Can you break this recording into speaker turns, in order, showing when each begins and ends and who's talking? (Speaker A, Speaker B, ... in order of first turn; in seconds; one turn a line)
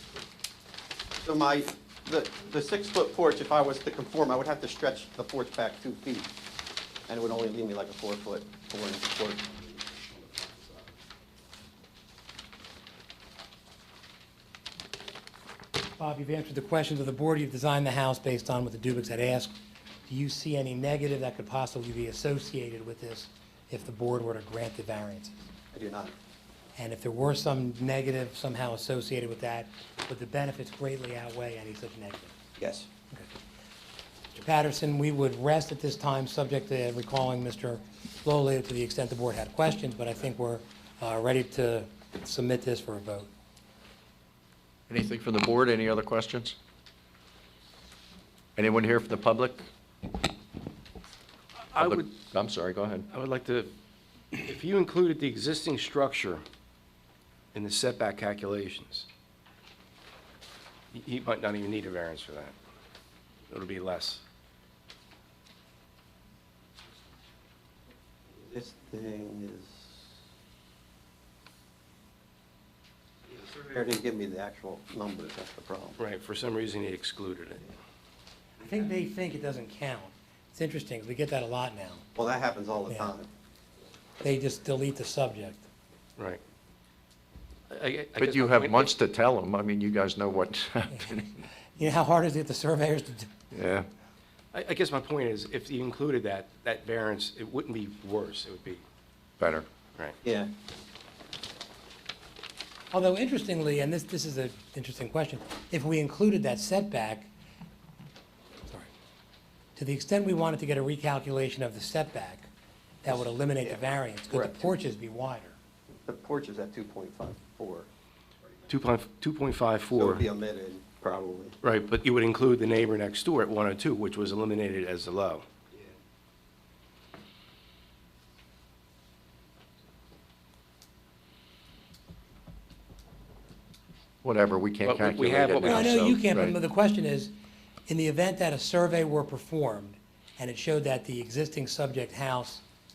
Speaker A: 1.2-6.3
Speaker A: 7.1-10.5
Speaker B: 16.0-19.5
Speaker B: 20.1-25.5
Speaker A: 25.7-26.1
Speaker B: 26.8-32.3
Speaker A: 32.6-32.9
Speaker B: 34.3-43.3
Speaker C: 44.9-46.6
Speaker C: 48.6-49.7
Speaker D: 51.8-52.1
Speaker C: 51.8-53.1
Speaker D: 53.1-53.7
Speaker D: 54.4-56.4
Speaker D: 57.5-59.1
Speaker D: 60.9-62.5
Speaker D: 63.5-64.2
Speaker A: 68.3-70.0
Speaker A: 73.3-76.0
Speaker D: 76.0-77.8
Speaker B: 78.6-82.0
Speaker A: 82.2-83.3
Speaker B: 82.9-83.2
Speaker B: 84.2-85.7
Speaker D: 87.7-88.9
Speaker C: 88.2-91.4
Speaker B: 91.8-93.4
Speaker C: 93.5-93.9
Speaker D: 94.5-98.8
Speaker C: 99.4-99.7
Speaker A: 100.2-100.5
Speaker B: 102.9-107.3
Speaker B: 109.8-112.5
Speaker B: 113.0-115.6
Speaker A: 113.1-114.7
Speaker A: 116.1-117.9
Speaker D: 118.7-120.3
Speaker A: 119.9-121.6
Speaker D: 121.6-125.5
Speaker C: 134.2-136.6
Speaker D: 134.8-136.2
Speaker B: 135.6-137.3
Speaker B: 137.9-142.6